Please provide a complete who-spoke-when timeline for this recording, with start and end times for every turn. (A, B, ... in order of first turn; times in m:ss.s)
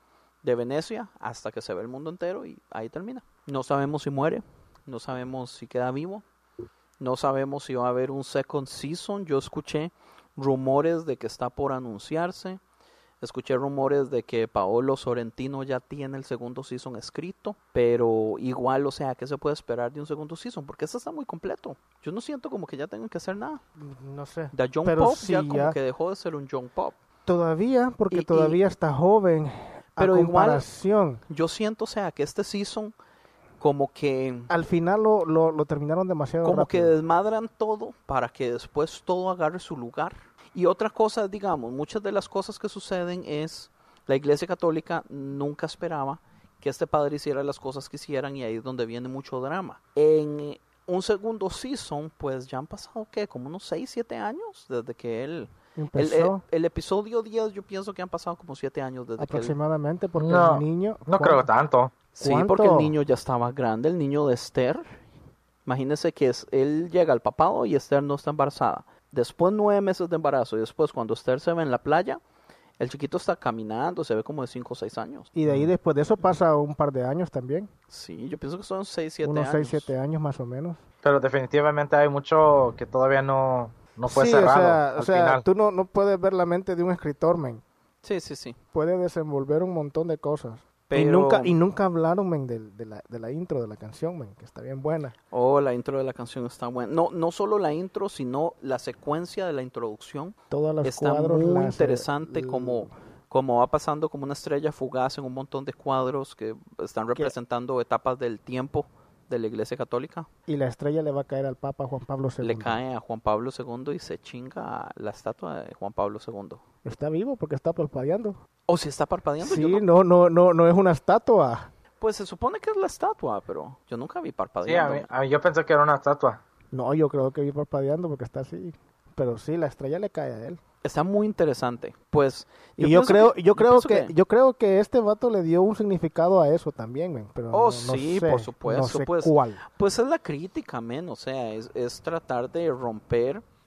0:00.4-0:06.2 A
0:07.0-0:12.6 A
0:13.2-0:23.6 A
0:23.8-0:25.8 B
0:24.5-0:27.0 A
0:27.3-0:31.2 B
0:28.1-0:28.6 A
0:30.0-0:30.6 A
0:31.3-0:32.9 A
0:33.6-0:34.5 A
0:34.5-0:36.9 B
0:36.4-0:59.6 A
0:55.8-0:56.4 B
0:59.2-1:01.5 B
1:00.2-1:02.0 C
1:02.2-1:05.0 A
1:02.2-1:02.9 B
1:05.7-1:12.2 A
1:12.8-1:15.3 A
1:15.4-1:17.7 B
1:17.9-1:19.9 A
1:19.2-1:20.8 B
1:21.0-1:25.4 C
1:24.1-1:27.6 B
1:28.0-1:28.6 A
1:28.7-1:35.2 B
1:30.9-1:31.5 A
1:35.3-1:50.3 A
1:40.5-1:42.9 B
1:50.5-1:52.8 B
1:52.4-1:56.6 A
1:56.8-1:58.4 B
1:58.7-1:59.8 A
1:59.4-2:01.7 B
2:02.0-2:05.1 A
2:04.6-2:06.4 C
2:06.7-2:10.6 B
2:10.8-2:14.1 A
2:12.8-2:19.6 B
2:17.5-2:23.4 A